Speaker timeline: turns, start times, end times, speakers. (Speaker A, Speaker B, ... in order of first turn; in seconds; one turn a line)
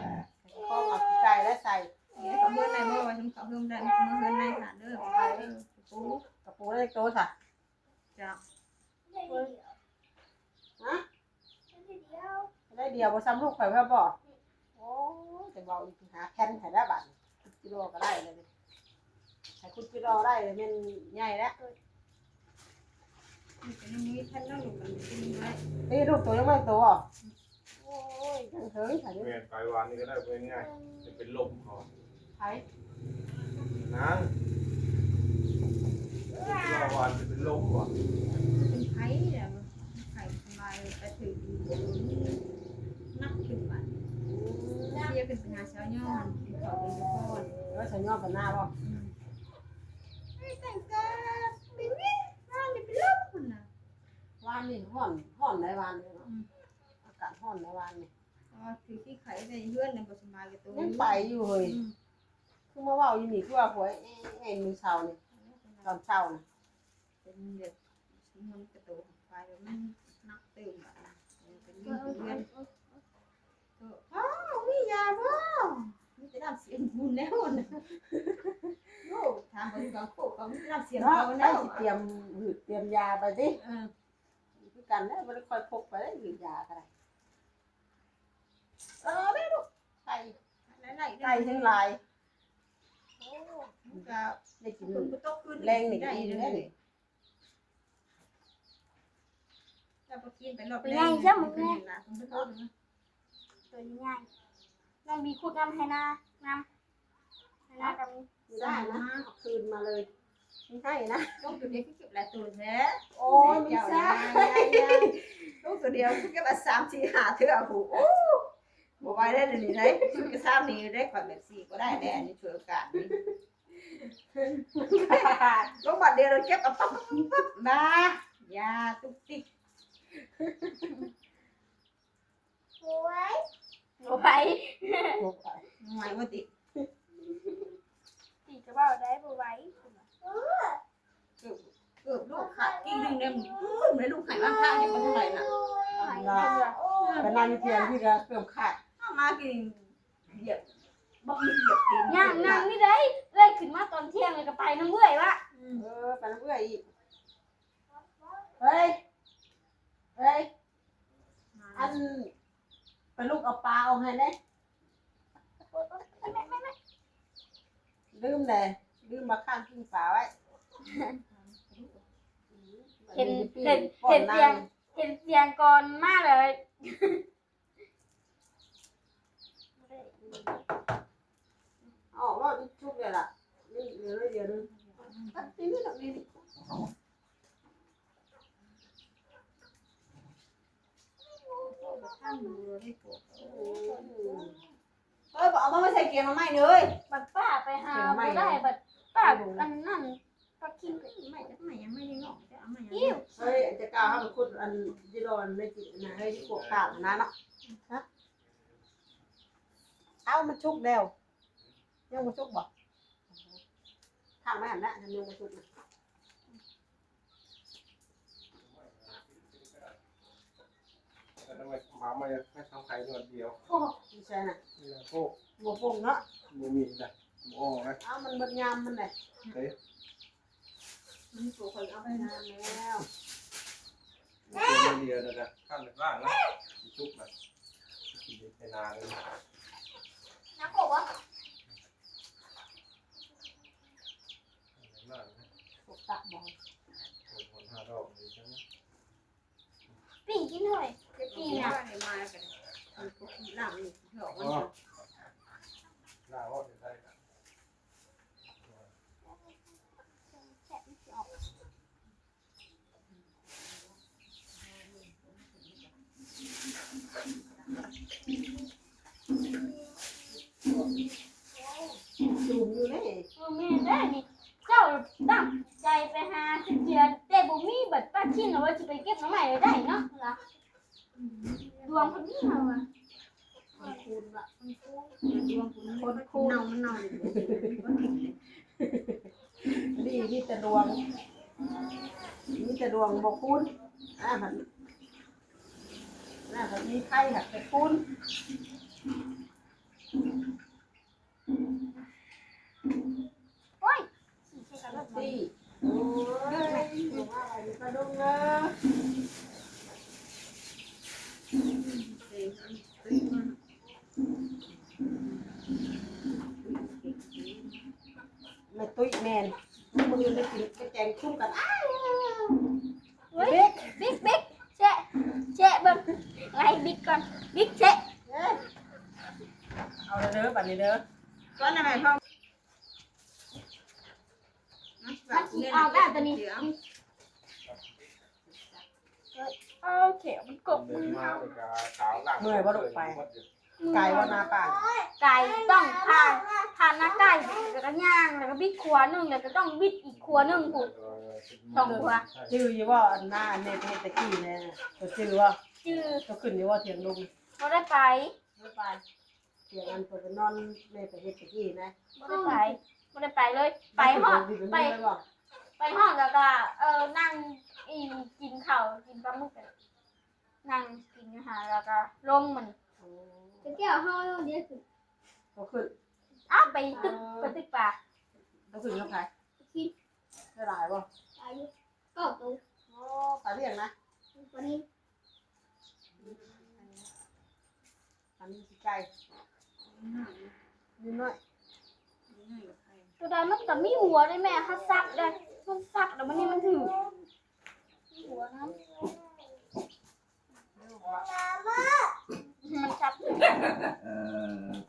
Speaker A: 0.3-1.9
Speaker B: 2.1-6.2
Speaker A: 6.4-7.3
Speaker C: 9.1-9.7
Speaker C: 11.7-12.5
Speaker A: 12.7-14.2
Speaker A: 14.8-18.5
Speaker A: 19.6-21.6
Speaker B: 23.6-25.6
Speaker A: 25.9-27.0
Speaker A: 27.8-29.4
Speaker D: 29.2-31.9
Speaker A: 32.4-32.6
Speaker D: 33.7-34.3
Speaker C: 36.4-36.8
Speaker D: 36.5-37.9
Speaker B: 38.6-42.4
Speaker B: 43.1-44.0
Speaker A: 44.3-45.1
Speaker B: 44.9-47.5
Speaker A: 47.7-48.7
Speaker B: 48.8-49.1
Speaker B: 50.4-53.7
Speaker A: 54.4-56.3
Speaker A: 57.0-58.1
Speaker B: 58.5-61.9
Speaker A: 60.7-61.8
Speaker A: 62.7-65.2
Speaker B: 65.3-66.0
Speaker A: 65.8-66.4
Speaker B: 67.2-72.5
Speaker C: 71.8-72.9
Speaker B: 73.8-77.8
Speaker A: 78.1-78.7
Speaker B: 79.0-81.8
Speaker A: 81.0-83.6
Speaker B: 83.6-83.9
Speaker A: 84.6-86.9
Speaker A: 89.0-90.4
Speaker B: 90.7-91.8
Speaker A: 91.2-92.0
Speaker A: 93.2-94.0
Speaker B: 93.8-96.7
Speaker A: 94.6-96.7
Speaker B: 100.1-102.7
Speaker C: 100.8-101.8
Speaker C: 103.7-104.3
Speaker C: 105.0-106.7
Speaker C: 107.7-108.3
Speaker A: 108.5-110.1
Speaker B: 108.5-109.3
Speaker A: 110.7-111.3
Speaker B: 111.4-118.5
Speaker A: 113.1-115.2
Speaker B: 119.0-123.2
Speaker A: 119.7-120.2
Speaker A: 124.4-125.8
Speaker B: 124.8-129.5
Speaker A: 130.4-130.8
Speaker C: 132.8-133.4
Speaker C: 134.0-135.2
Speaker A: 135.2-135.6
Speaker B: 135.8-136.5
Speaker C: 138.5-140.8
Speaker B: 141.4-145.5
Speaker C: 142.3-143.5
Speaker C: 144.3-147.9
Speaker A: 145.9-146.6
Speaker B: 147.0-147.4
Speaker A: 147.2-148.8
Speaker B: 149.0-150.7
Speaker B: 151.2-152.7
Speaker C: 152.1-155.4
Speaker B: 155.5-155.8
Speaker A: 155.8-156.8
Speaker A: 158.6-159.0
Speaker A: 160.2-160.5
Speaker B: 161.5-162.0
Speaker A: 161.8-162.3
Speaker A: 163.2-164.4
Speaker C: 165.7-166.7
Speaker A: 168.1-170.3
Speaker B: 170.8-172.1
Speaker A: 172.5-174.7
Speaker C: 173.1-177.2
Speaker A: 180.2-180.4
Speaker A: 182.1-184.7
Speaker B: 184.8-185.5
Speaker A: 185.3-186.3
Speaker B: 191.6-194.6
Speaker C: 191.9-192.6
Speaker A: 193.4-194.6
Speaker B: 195.3-197.0
Speaker C: 197.1-201.1
Speaker A: 197.9-198.7
Speaker A: 199.2-199.7
Speaker B: 200.9-203.7
Speaker C: 202.9-203.3
Speaker A: 203.3-207.3
Speaker D: 206.3-206.9
Speaker A: 210.2-211.1
Speaker A: 212.1-212.7
Speaker A: 213.3-213.6
Speaker A: 214.4-215.7
Speaker D: 218.6-219.9
Speaker D: 221.4-223.6
Speaker A: 224.0-224.6
Speaker D: 224.8-225.3
Speaker A: 225.6-226.2
Speaker D: 226.5-228.0
Speaker A: 228.0-229.1
Speaker D: 229.5-229.8
Speaker B: 231.3-232.8
Speaker A: 232.1-233.1
Speaker C: 234.5-234.8
Speaker D: 234.6-237.3
Speaker D: 238.2-239.2
Speaker C: 240.6-241.1
Speaker D: 244.8-245.5
Speaker A: 245.9-246.5
Speaker D: 247.3-248.6
Speaker C: 250.3-251.8
Speaker B: 251.3-254.7
Speaker D: 254.3-254.7
Speaker D: 256.3-257.1
Speaker C: 260.7-261.3
Speaker B: 265.1-265.7
Speaker A: 272.1-273.3
Speaker C: 273.4-280.4
Speaker B: 281.2-282.1
Speaker C: 281.8-282.9
Speaker A: 283.8-284.5
Speaker B: 284.6-288.4
Speaker A: 286.0-287.7
Speaker A: 288.8-291.0
Speaker A: 292.5-293.7
Speaker A: 294.2-294.6
Speaker A: 296.5-298.0
Speaker C: 303.8-305.4
Speaker A: 304.9-308.8
Speaker B: 306.4-307.3
Speaker B: 311.8-313.6
Speaker B: 316.6-317.9
Speaker A: 318.7-322.6
Speaker C: 323.3-328.1
Speaker A: 323.4-324.1
Speaker A: 328.3-328.6
Speaker A: 330.1-331.0
Speaker B: 331.6-332.2
Speaker B: 335.0-336.7
Speaker C: 335.3-336.7
Speaker B: 338.5-338.8
Speaker C: 339.3-341.5
Speaker D: 340.7-343.5
Speaker A: 342.4-343.2
Speaker C: 343.8-350.9
Speaker A: 343.9-344.8
Speaker D: 350.1-352.5
Speaker C: 351.8-352.3
Speaker A: 351.8-355.6
Speaker C: 355.8-356.3
Speaker A: 356.2-357.3
Speaker C: 357.6-358.3
Speaker A: 358.6-359.0
Speaker A: 359.7-361.9
Speaker C: 362.2-365.0
Speaker A: 363.9-365.2
Speaker C: 365.8-369.7
Speaker C: 370.6-372.8
Speaker A: 373.0-373.7
Speaker C: 373.6-374.8
Speaker A: 375.6-375.9
Speaker C: 376.5-378.0
Speaker A: 376.9-377.6
Speaker A: 378.7-379.3
Speaker C: 379.6-379.9
Speaker A: 380.6-381.1
Speaker C: 381.4-382.6
Speaker A: 382.9-383.9
Speaker C: 384.4-384.8
Speaker B: 386.2-387.1
Speaker A: 388.4-389.1
Speaker B: 389.8-390.5
Speaker A: 391.0-391.4
Speaker B: 392.3-393.1
Speaker C: 393.2-397.2
Speaker C: 398.1-399.1
Speaker A: 400.8-401.2
Speaker C: 401.4-402.1
Speaker C: 402.6-403.6